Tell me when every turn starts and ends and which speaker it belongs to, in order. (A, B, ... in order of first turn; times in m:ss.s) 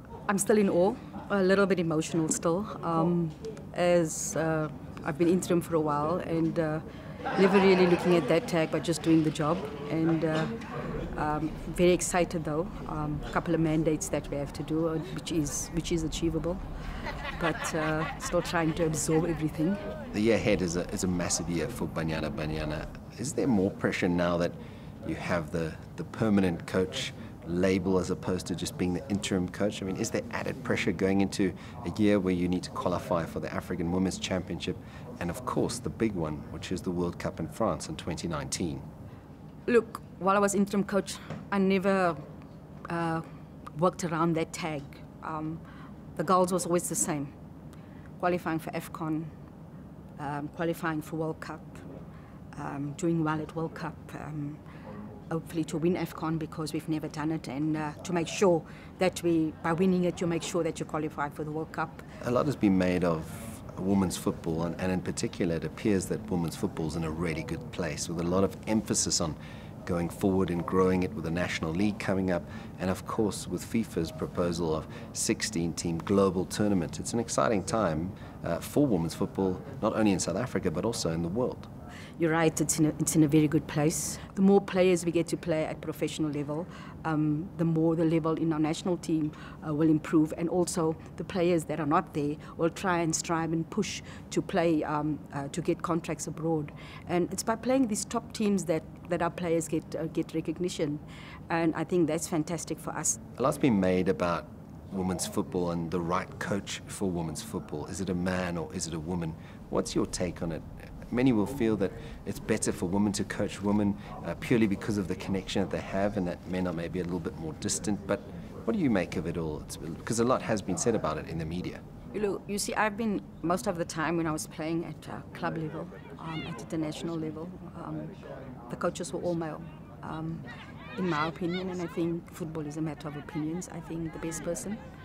0:00.3-0:06.8 A
0:07.4-0:10.6 A
0:11.1-0:16.6 A
0:17.4-0:19.8 A
0:20.1-0:38.8 B
0:39.7-0:42.2 A
0:42.9-0:45.6 A
0:46.2-0:47.3 A
0:48.2-0:49.3 A
0:50.2-0:51.9 A
0:52.5-0:54.6 A
0:55.3-1:02.0 A
1:02.2-1:21.7 B
1:22.2-1:43.2 A
1:43.4-2:01.8 B
2:02.1-2:08.1 A
2:08.7-2:10.4 A
2:11.0-2:14.8 A